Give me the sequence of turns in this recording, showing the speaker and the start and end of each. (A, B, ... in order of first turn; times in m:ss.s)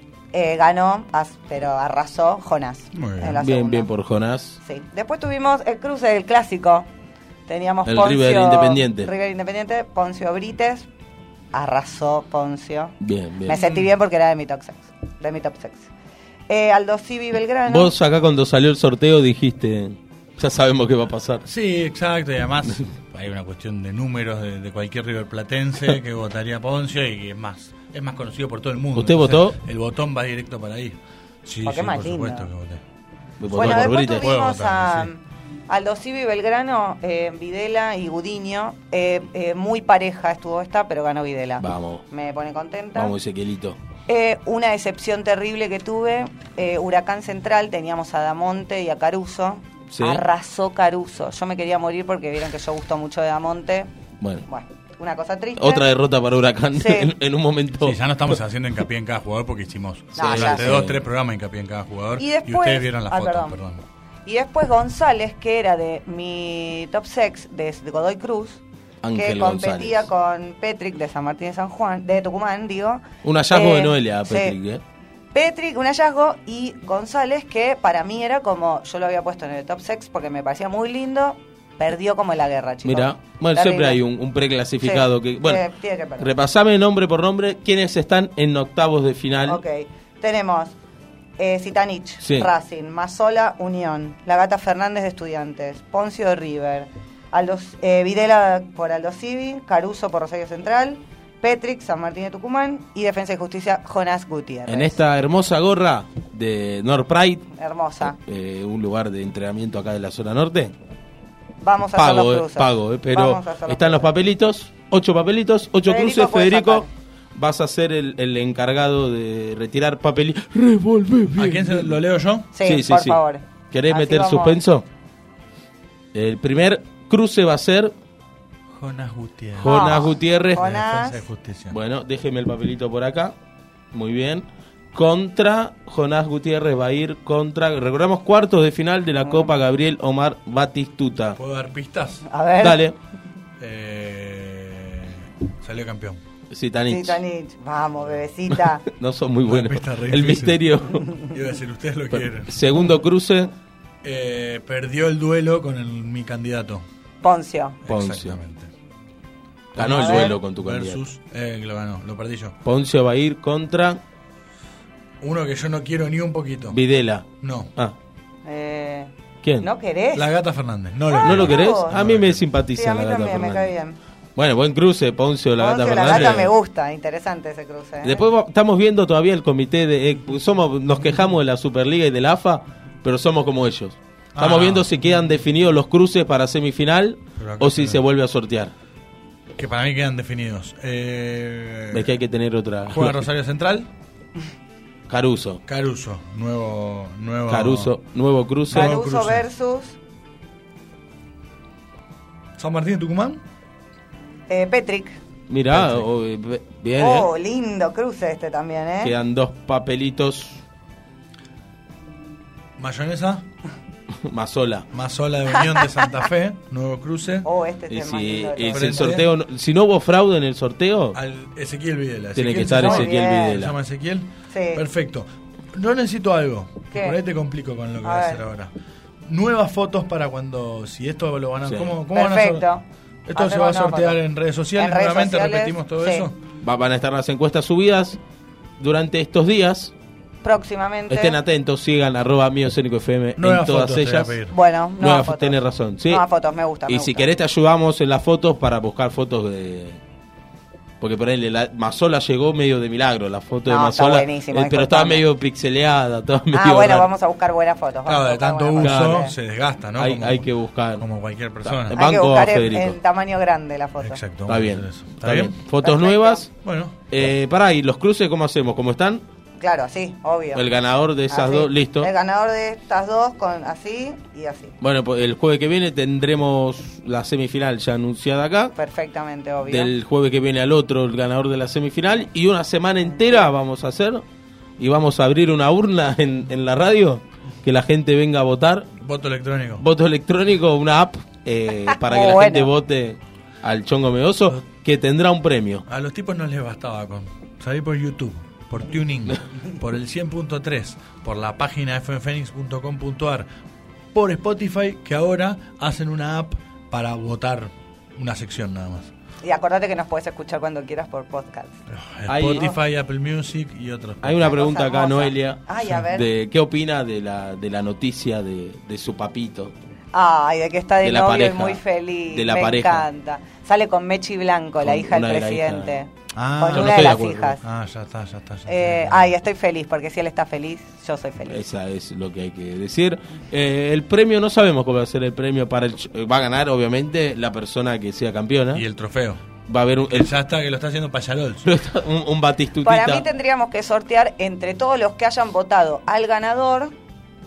0:00.3-0:03.9 A
0:02.9-0:03.4 B
0:03.4-0:04.6 C
0:04.6-0:06.9 A
0:07.5-0:10.9 A
0:07.8-0:09.1 C
0:11.5-0:15.9 A
0:13.0-0:13.6 C
0:13.5-0:13.9 B
0:16.5-0:17.9 A
0:17.6-0:21.4 C
0:21.4-0:32.8 B
0:28.9-0:29.6 C
0:31.6-0:32.5 A
0:33.4-0:34.3 C
0:33.5-0:43.2 A
0:33.5-0:35.1 B
0:41.6-0:42.0 C
0:43.0-0:43.8 C
0:44.1-0:53.9 A
0:49.9-0:50.2 C
0:54.2-0:54.4 C
0:54.4-0:55.8 A
0:55.6-0:58.0 C
0:56.7-0:57.1 A
0:57.8-1:03.8 B
1:00.2-1:00.8 A
1:00.2-1:01.0 C
1:02.2-1:03.6 A
1:04.2-1:08.6 A
1:09.0-1:10.1 C
1:09.1-1:14.6 A
1:13.2-1:14.8 C
1:15.3-1:24.0 A
1:22.8-1:25.6 C
1:24.8-1:26.3 A
1:26.2-1:29.6 C
1:29.4-1:30.8 A
1:31.4-1:45.0 A
1:32.2-1:32.5 C
1:44.7-1:47.5 C
1:47.5-1:48.2 A
1:48.0-1:50.7 C
1:51.6-1:54.1 A
1:52.0-2:02.0 C
1:55.8-1:56.9 A
2:01.3-2:02.5 B
2:02.5-2:04.6 A
2:02.6-2:03.2 C
2:03.7-2:04.8 C
2:06.1-2:07.9 C
2:08.7-2:11.8 B
2:09.6-2:10.7 C
2:09.6-2:11.2 A
2:11.7-2:13.3 C
2:13.9-2:21.4 C
2:21.4-2:22.2 B
2:22.2-2:22.8 A
2:22.6-2:23.0 C
2:23.6-2:26.2 B
2:26.5-2:27.2 C
2:26.9-2:28.8 A
2:28.8-2:31.2 C
2:29.4-2:32.6 B
2:32.1-2:33.5 C
2:34.0-2:36.8 B
2:37.2-2:37.8 A
2:37.8-2:38.7 B
2:37.9-2:38.4 C
2:39.7-2:42.5 B
2:39.8-2:41.0 C
2:39.8-2:40.4 A
2:42.6-2:44.0 C
2:45.2-2:46.8 B
2:46.7-2:47.2 C
2:47.4-2:47.7 B
2:48.4-2:50.3 A
2:50.1-2:52.4 B
2:51.1-2:52.0 A
2:51.2-2:53.7 C
2:52.7-2:54.0 A
2:54.4-2:56.5 C
2:55.6-2:58.2 A
2:56.0-2:56.4 B
2:58.0-3:08.7 C
3:04.3-3:04.9 B
3:07.4-3:08.0 B
3:09.6-3:12.2 B
3:11.9-3:13.2 C
3:12.9-3:13.9 B
3:15.1-3:15.6 C
3:15.7-3:17.9 B
3:17.5-3:19.0 C
3:18.7-3:19.5 B
3:18.7-3:20.0 A
3:22.6-3:23.4 B
3:24.5-3:25.2 A
3:25.5-3:27.3 C
3:25.7-3:26.1 B
3:27.0-3:29.1 A
3:29.0-3:30.6 C
3:32.8-3:33.4 B
3:34.2-3:34.9 C
3:34.9-3:37.5 B
3:37.4-3:39.0 A
3:37.9-3:41.2 C
3:38.6-3:39.3 B
3:41.1-3:48.7 B
3:42.3-3:43.7 C
3:42.6-3:43.6 A
3:44.5-3:44.8 A
3:46.9-3:47.2 A
3:48.0-3:48.4 A
3:49.2-3:52.7 B
3:51.6-3:51.9 C
3:52.1-3:52.8 A
3:53.3-3:56.4 B
3:53.3-3:54.2 A
3:54.7-3:56.3 A
3:56.6-3:58.2 C
3:58.8-3:59.9 C
4:00.4-4:01.4 A
4:01.1-4:04.3 C
4:03.4-4:04.6 B
4:04.5-4:07.3 A
4:05.0-4:06.2 C
4:06.9-4:10.0 C
4:11.0-4:17.1 C
4:13.6-4:15.2 A
4:16.5-4:19.3 A
4:18.0-4:22.0 B
4:18.8-4:19.3 C
4:20.0-4:21.0 C
4:21.6-4:23.0 C
4:21.9-4:24.2 A
4:24.0-4:25.5 B
4:24.5-4:26.5 C
4:25.8-4:26.4 A
4:26.6-4:27.0 B
4:27.1-4:29.2 C
4:29.6-4:30.7 A
4:30.5-4:32.1 C
4:31.3-4:34.7 A
4:34.8-4:38.7 C
4:38.7-4:39.9 A
4:39.6-4:44.2 C
4:44.8-4:48.9 C
4:49.0-4:49.8 B
4:49.8-4:55.8 C
4:51.9-4:52.7 A
4:55.9-5:03.5 B
5:04.1-5:09.1 B
5:09.4-5:11.8 A
5:11.9-5:14.5 B
5:12.3-5:12.7 C
5:14.2-5:19.7 C
5:14.4-5:16.3 A
5:20.1-5:27.6 A
5:21.0-5:23.0 C
5:24.8-5:26.0 C
5:26.3-5:29.3 B
5:26.7-5:27.6 C
5:28.6-5:31.7 A
5:31.5-5:38.8 C
5:38.7-5:39.4 B
5:39.7-5:40.3 C
5:40.1-5:41.7 B
5:41.6-5:43.2 C
5:42.8-5:46.9 A